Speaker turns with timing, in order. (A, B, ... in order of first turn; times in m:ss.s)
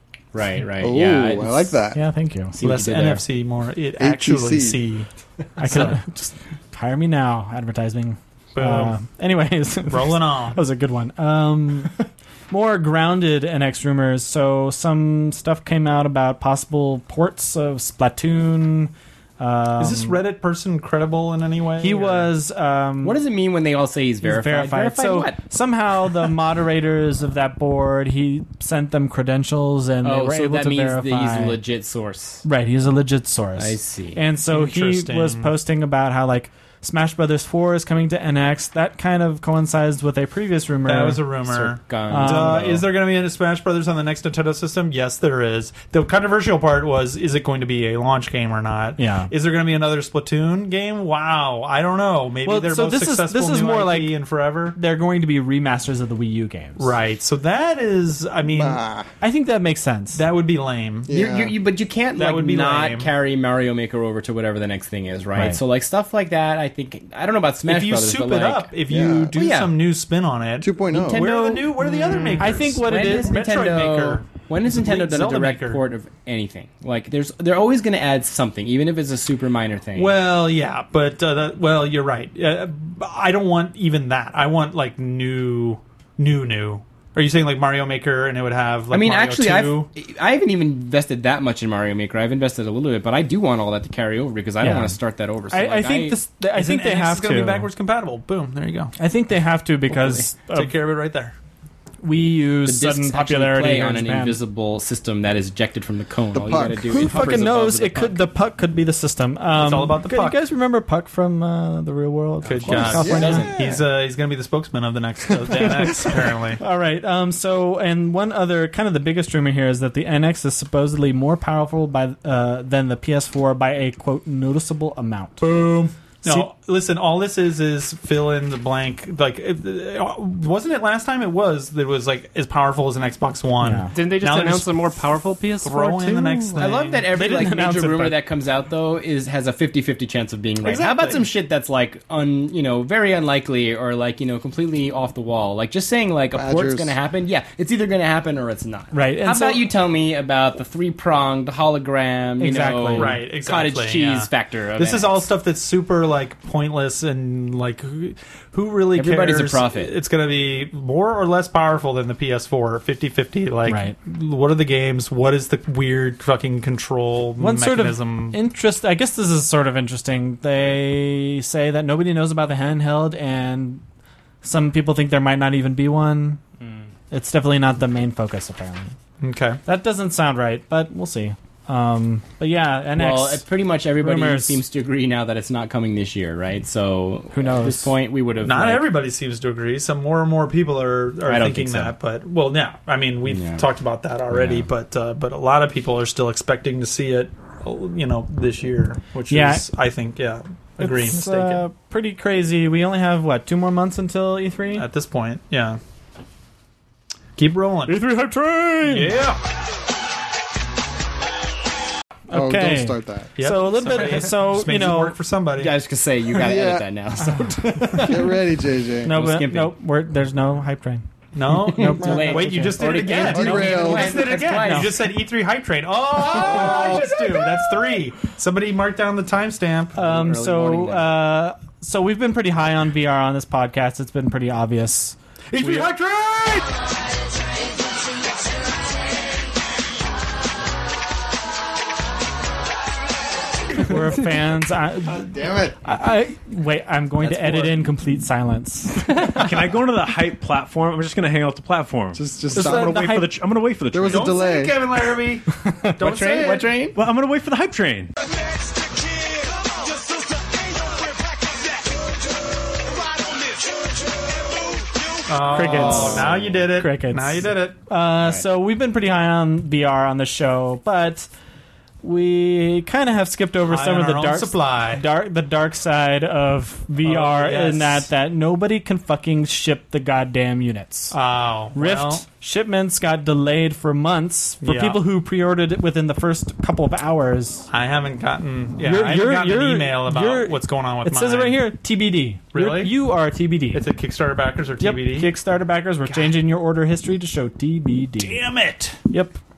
0:00.3-0:01.8 A
0:00.8-0:02.0 B
0:01.9-0:02.6 C
0:02.6-0:03.3 A
0:02.6-0:06.0 D
0:04.0-0:04.8 B
0:05.6-0:20.2 C
0:08.6-0:09.0 D
0:09.9-0:10.6 D
0:19.8-0:22.3 D
0:21.8-0:23.2 C
0:23.0-0:25.4 A
0:24.2-0:31.6 C
0:30.0-0:32.4 A
0:32.4-0:41.2 C
0:33.6-0:34.2 A
0:34.5-0:35.5 D
0:40.9-0:54.8 D
0:41.5-0:42.8 A
0:42.1-0:42.9 C
0:49.0-0:49.3 C
0:52.4-0:54.2 C
0:54.7-0:56.9 C
0:56.8-0:58.8 D
0:58.4-0:59.1 B
0:59.2-1:00.2 C
1:00.1-1:01.1 D
1:01.1-1:01.5 B
1:01.1-1:08.7 A
1:02.2-1:03.1 D
1:07.6-1:15.8 D
1:08.9-1:09.3 B
1:09.3-1:09.8 A
1:10.6-1:11.4 B
1:10.9-1:20.2 A
1:12.4-1:13.6 C
1:20.0-1:29.9 D
1:28.9-1:36.2 A
1:34.6-1:35.0 C
1:35.5-1:37.7 C
1:36.5-1:38.9 D
1:39.0-1:40.8 C
1:39.9-1:40.2 A
1:40.5-1:41.3 D
1:42.0-1:44.4 C
1:42.6-1:48.2 A
1:46.4-1:47.1 B
1:46.9-1:53.5 C
1:49.5-1:50.4 D
1:52.4-1:56.6 D
1:52.6-1:53.6 A
1:52.9-1:53.7 B
1:55.6-2:05.6 C
2:05.4-2:14.8 D
2:06.2-2:06.5 C
2:13.6-2:13.9 C
2:13.9-2:16.5 E
2:15.6-2:17.1 D
2:16.6-2:35.3 A
2:17.1-2:18.2 C
2:20.6-2:21.3 D
2:26.3-2:26.9 B
2:28.9-2:29.7 C
2:32.4-2:33.2 C
2:32.9-2:48.4 D
2:39.0-2:39.9 A
2:43.7-2:44.0 C
2:47.4-2:53.8 C
2:54.4-2:56.4 C
2:57.1-2:59.0 C
2:59.2-2:59.6 D
2:59.7-3:03.4 C
3:03.0-3:08.9 A
3:04.0-3:04.6 C
3:07.3-3:07.9 C
3:08.4-3:21.6 D
3:11.2-3:12.0 A
3:13.3-3:13.7 A
3:14.3-3:14.7 A
3:19.3-3:19.7 C
3:20.8-3:24.9 C
3:24.8-3:25.8 D
3:27.4-3:28.1 D
3:27.9-3:29.2 C
3:28.8-3:29.4 D
3:32.3-3:35.2 C
3:32.3-3:33.3 B
3:33.4-3:35.8 D
3:35.6-3:38.1 A
3:36.3-3:36.9 B
3:37.2-3:38.2 C
3:37.6-3:39.1 B
3:39.0-3:41.1 C
3:39.1-3:39.8 A
3:41.4-3:50.0 D
3:41.5-3:45.0 A
3:41.7-3:42.8 C
3:42.0-3:42.4 B
3:43.1-3:44.5 B
3:43.3-3:44.9 C
3:46.2-3:47.7 C
3:46.4-3:47.1 B
3:50.0-3:55.9 C
3:50.0-3:51.1 A
3:55.6-3:55.9 D
4:03.8-4:09.4 C
4:05.1-4:05.8 B
4:09.2-4:14.5 F
4:12.2-4:13.1 B
4:12.5-4:13.3 C
4:13.9-4:14.8 B
4:14.1-4:16.8 D
4:15.6-4:16.0 C
4:16.0-4:17.0 A
4:16.9-4:18.1 F
4:25.3-4:27.8 D
4:25.5-4:31.3 C
4:25.6-4:26.6 A
4:32.0-4:41.2 C
4:33.7-4:35.0 D
4:37.0-4:38.1 D
4:41.1-4:42.2 D
4:41.8-4:47.7 C
4:44.6-4:45.0 D
4:47.7-4:51.6 D
4:48.8-4:53.9 C
4:52.5-4:52.9 D
4:53.7-4:55.3 D
4:54.8-4:58.4 C
4:58.2-4:59.0 D
4:59.1-4:59.4 C